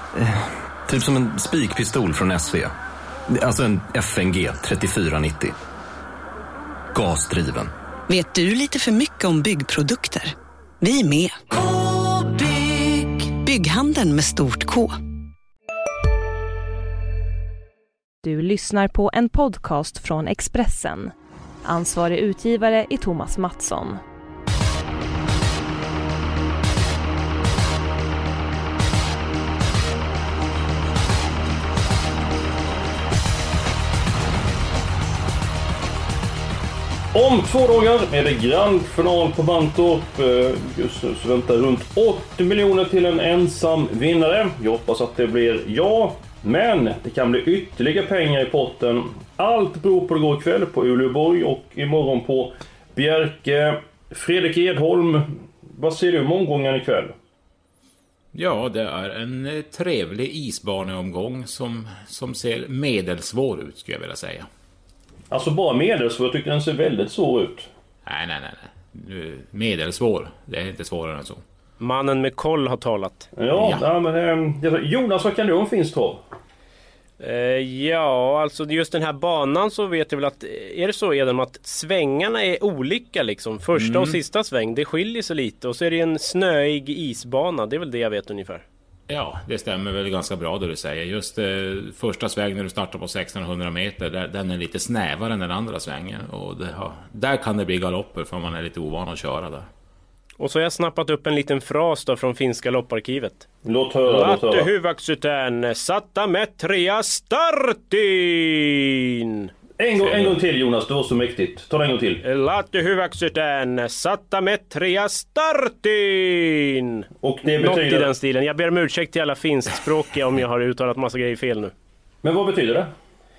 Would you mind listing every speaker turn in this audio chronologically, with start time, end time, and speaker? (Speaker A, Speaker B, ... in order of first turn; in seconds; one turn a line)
Speaker A: 0.2-2.7
Speaker A: 3.3-5.5
Speaker A: 6.9-7.7
Speaker B: 8.1-14.9
Speaker C: 18.2-21.1
Speaker C: 21.6-24.0
Speaker D: 37.1-57.1
Speaker E: 58.3-64.5
Speaker D: 65.3-67.7
Speaker E: 68.0-71.4
Speaker F: 71.8-73.3
Speaker D: 73.3-76.2
Speaker E: 73.5-73.8
Speaker F: 77.2-88.6
Speaker E: 83.7-84.2
Speaker E: 89.1-99.7
Speaker F: 100.4-103.4
Speaker D: 103.6-104.7
Speaker F: 104.0-109.5
Speaker D: 109.8-112.2
Speaker F: 112.2-121.7
Speaker D: 117.2-118.1
Speaker D: 122.2-122.9